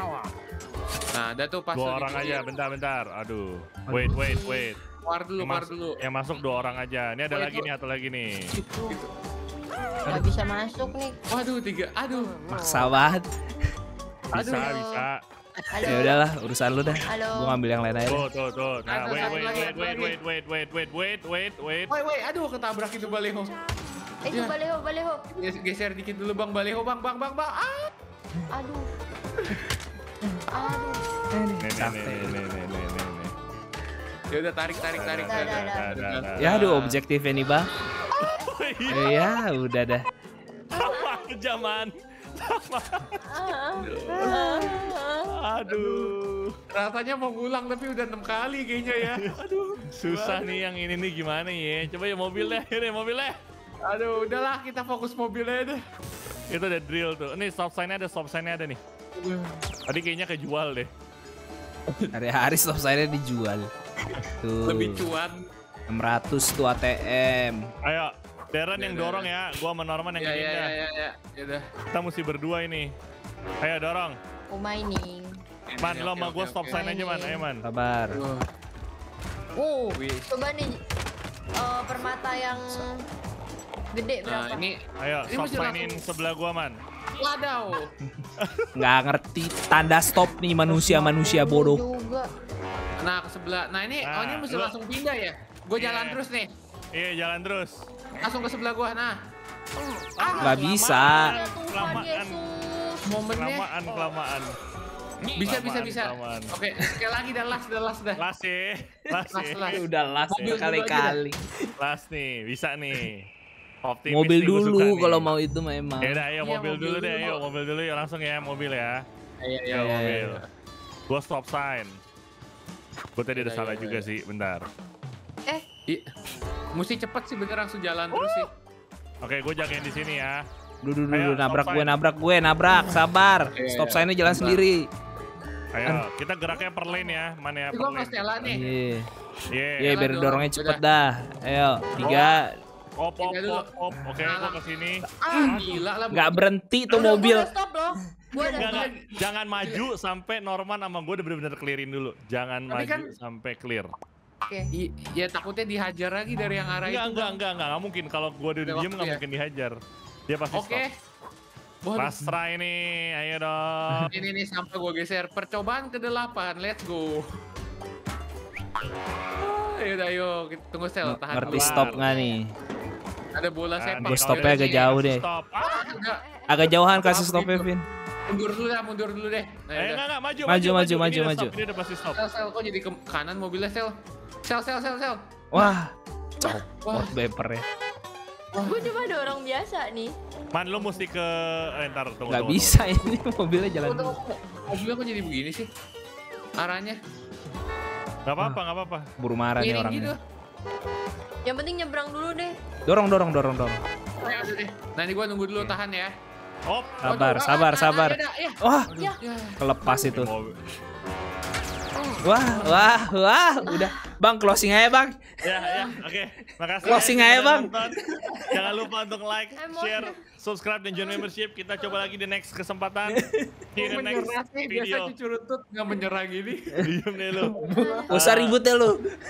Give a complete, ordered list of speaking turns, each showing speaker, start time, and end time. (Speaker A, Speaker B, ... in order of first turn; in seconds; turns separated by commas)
Speaker A: 1.1-2.4, Speaker B: 1.7-4.8, Speaker C: 3.9-4.2, Speaker D: 4.2-4.7, Speaker A: 5.0-6.0, Speaker B: 5.4-8.5, Speaker A: 7.3-7.7, Speaker A: 8.5-9.1, Speaker D: 10.1-11.2, Speaker A: 11.3-12.5, Speaker C: 12.5-13.3, Speaker B: 14.3-15.2, Speaker A: 14.3-14.7, Speaker D: 14.5-15.1, Speaker A: 15.6-16.1, Speaker D: 15.7-16.2, Speaker C: 15.9-18.2, Speaker D: 17.1-17.6, Speaker B: 18.1-21.9, Speaker A: 18.9-20.2, Speaker D: 19.1-19.7, Speaker A: 21.9-23.6, Speaker D: 24.2-25.3, Speaker A: 24.3-24.6, Speaker A: 25.3-27.9, Speaker D: 28.5-28.9, Speaker D: 30.5-31.0, Speaker C: 31.3-32.4, Speaker B: 31.6-33.3, Speaker A: 34.3-37.0, Speaker B: 35.0-36.5, Speaker D: 35.3-35.9, Speaker C: 36.4-37.7, Speaker D: 38.1-39.3, Speaker B: 38.2-39.3, Speaker C: 38.9-40.1, Speaker B: 40.7-43.5, Speaker D: 40.8-41.2, Speaker D: 43.3-45.3, Speaker A: 43.8-44.9, Speaker B: 45.2-46.5, Speaker A: 45.7-46.1, Speaker A: 46.7-50.5, Speaker B: 49.0-53.4, Speaker A: 53.8-55.8, Speaker B: 56.5-58.8, Speaker A: 59.2-59.6, Speaker B: 59.9-60.9, Speaker C: 62.1-63.7, Speaker C: 64.4-65.1, Speaker A: 64.7-65.4, Speaker C: 65.9-67.7, Speaker B: 67.8-70.7, Speaker A: 68.8-69.3, Speaker A: 70.2-71.7, Speaker B: 71.9-72.9, Speaker B: 73.6-74.2, Speaker D: 74.5-75.4, Speaker A: 75.7-76.8, Speaker B: 75.8-77.6, Speaker D: 76.7-77.5, Speaker C: 77.6-78.2, Speaker A: 78.1-78.5, Speaker D: 79.6-80.8, Speaker A: 80.0-80.4, Speaker D: 81.5-83.0, Speaker D: 83.9-84.7, Speaker A: 84.2-86.1, Speaker B: 85.0-86.8, Speaker A: 87.2-87.9, Speaker B: 88.4-88.7, Speaker C: 88.8-91.8, Speaker D: 90.7-92.3, Speaker A: 93.0-96.5, Speaker B: 94.0-94.7, Speaker B: 95.8-96.2, Speaker B: 96.9-97.9, Speaker A: 98.2-99.2, Speaker B: 100.2-102.4, Speaker D: 100.3-103.0, Speaker C: 100.4-101.3, Speaker A: 103.1-103.7, Speaker B: 103.3-104.6, Speaker A: 105.4-108.2, Speaker B: 105.4-106.6, Speaker B: 108.2-109.8, Speaker A: 109.3-111.2, Speaker C: 109.7-111.7, Speaker B: 110.3-110.6, Speaker B: 111.8-113.3, Speaker B: 113.8-115.3, Speaker C: 114.1-116.2, Speaker B: 116.0-119.0, Speaker A: 116.4-117.4, Speaker A: 119.4-120.5, Speaker C: 119.7-120.4, Speaker B: 119.7-120.4, Speaker B: 121.1-122.0, Speaker B: 123.2-124.7, Speaker A: 123.3-124.0, Speaker A: 125.5-126.1, Speaker A: 126.7-128.5, Speaker B: 128.2-128.5, Speaker B: 129.2-130.4, Speaker C: 130.8-134.9, Speaker B: 131.1-132.0, Speaker A: 133.6-134.6, Speaker B: 135.7-138.6, Speaker D: 136.8-137.1, Speaker A: 137.7-138.7, Speaker C: 138.5-139.1, Speaker B: 139.5-139.9, Speaker C: 139.8-142.5, Speaker A: 139.8-140.8, Speaker B: 142.0-142.4, Speaker B: 143.0-145.7, Speaker A: 143.2-143.7, Speaker A: 144.2-144.6, Speaker A: 145.2-147.3, Speaker C: 145.3-147.5, Speaker D: 146.9-148.9, Speaker A: 148.3-149.9, Speaker B: 148.4-153.9, Speaker A: 152.7-153.1, Speaker D: 154.5-154.7, Speaker A: 154.7-157.4, Speaker B: 156.9-159.8, Speaker A: 158.7-159.2, Speaker B: 160.3-160.8, Speaker A: 160.5-160.9, Speaker A: 161.8-162.3, Speaker B: 162.0-164.1, Speaker A: 164.1-167.3, Speaker A: 169.4-172.1, Speaker C: 171.0-172.5, Speaker B: 171.5-172.0, Speaker D: 172.0-172.4, Speaker A: 173.3-175.0, Speaker B: 173.8-175.9, Speaker C: 174.0-175.3, Speaker A: 175.6-176.2, Speaker D: 175.6-176.5, Speaker C: 176.5-177.8, Speaker A: 176.9-177.7, Speaker A: 178.3-180.0, Speaker B: 179.8-182.2, Speaker C: 180.5-181.6, Speaker A: 182.2-185.2, Speaker C: 185.5-187.7, Speaker A: 186.8-187.2, Speaker A: 188.5-188.9, Speaker D: 188.6-190.2, Speaker B: 190.5-192.8, Speaker C: 192.3-194.2, Speaker A: 193.8-195.7, Speaker A: 196.6-197.0, Speaker B: 198.3-199.1, Speaker C: 199.2-200.2, Speaker A: 199.6-200.2, Speaker D: 201.4-202.6, Speaker C: 202.9-203.8, Speaker A: 204.2-206.2, Speaker B: 206.7-207.1, Speaker C: 207.0-208.9, Speaker A: 207.0-208.6, Speaker B: 208.9-209.2, Speaker A: 209.2-209.6, Speaker C: 209.6-210.3, Speaker B: 210.0-210.6, Speaker C: 212.2-215.4, Speaker D: 213.7-214.0, Speaker B: 215.4-225.1, Speaker D: 215.6-215.9, Speaker C: 216.8-218.4, Speaker D: 219.6-220.2, Speaker C: 223.1-223.6, Speaker A: 223.8-226.8, Speaker C: 226.7-229.1, Speaker B: 226.8-228.6, Speaker D: 227.7-228.1